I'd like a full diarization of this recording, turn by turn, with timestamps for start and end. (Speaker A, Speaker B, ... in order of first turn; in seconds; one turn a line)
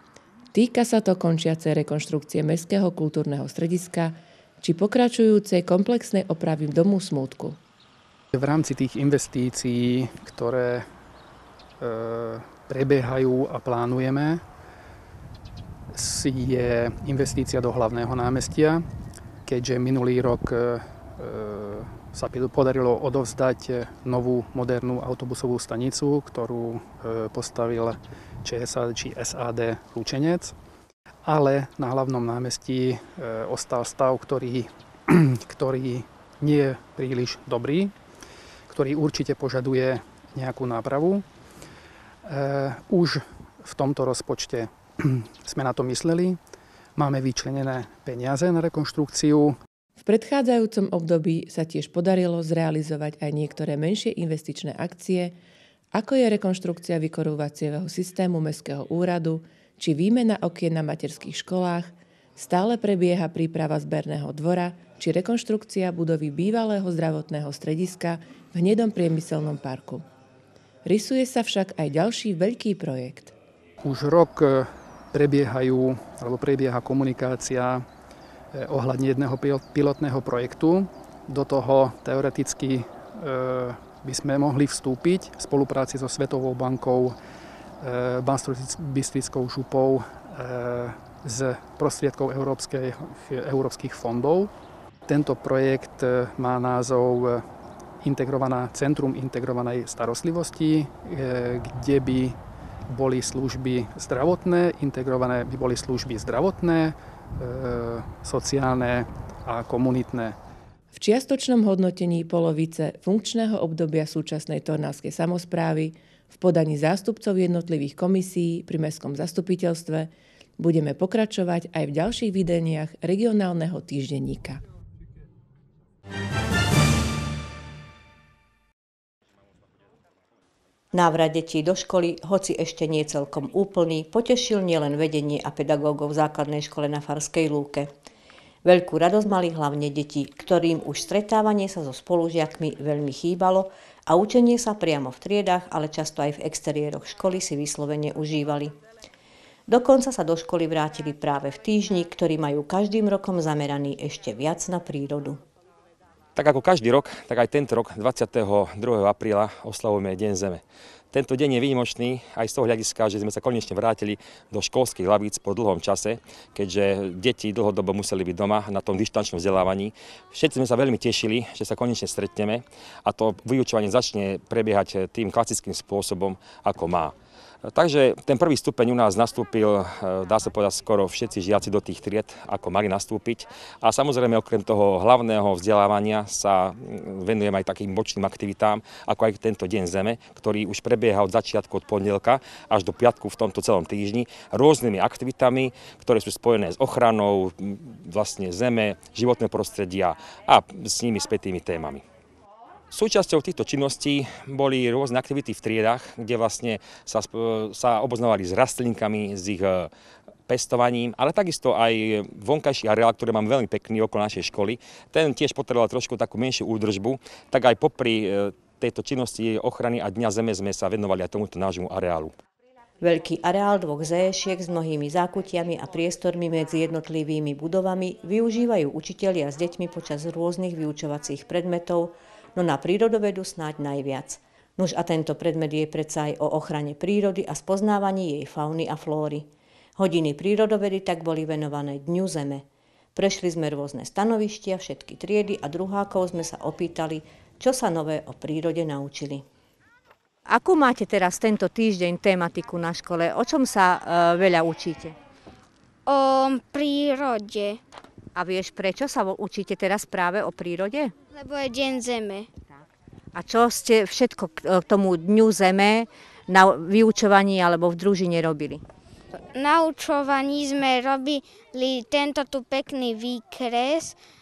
Speaker A: 0.5-7.6
Speaker B: 8.3-10.9
Speaker B: 11.8-14.4
Speaker B: 15.9-18.9
Speaker B: 19.5-30.6
Speaker B: 31.2-37.9
Speaker B: 38.7-41.2
Speaker B: 42.2-46.4
Speaker B: 47.0-49.6
Speaker A: 50.0-55.4
Speaker A: 55.9-70.1
Speaker A: 70.8-73.3
Speaker B: 73.8-77.8
Speaker B: 78.5-87.2
Speaker B: 87.8-94.5
Speaker B: 95.1-97.5
Speaker B: 98.0-102.4
Speaker B: 102.9-110.4
Speaker A: 110.9-124.6
Speaker C: 130.9-137.9
Speaker C: 138.7-148.8
Speaker C: 149.7-155.4
Speaker D: 156.3-202.0
Speaker D: 202.9-209.9
Speaker D: 210.5-222.3
Speaker C: 223.0-249.4
Speaker C: 250.5-255.2
Speaker E: 256.1-257.8
Speaker C: 258.4-261.1
Speaker E: 261.3-262.5
Speaker C: 263.4-268.8
Speaker E: 269.5-274.2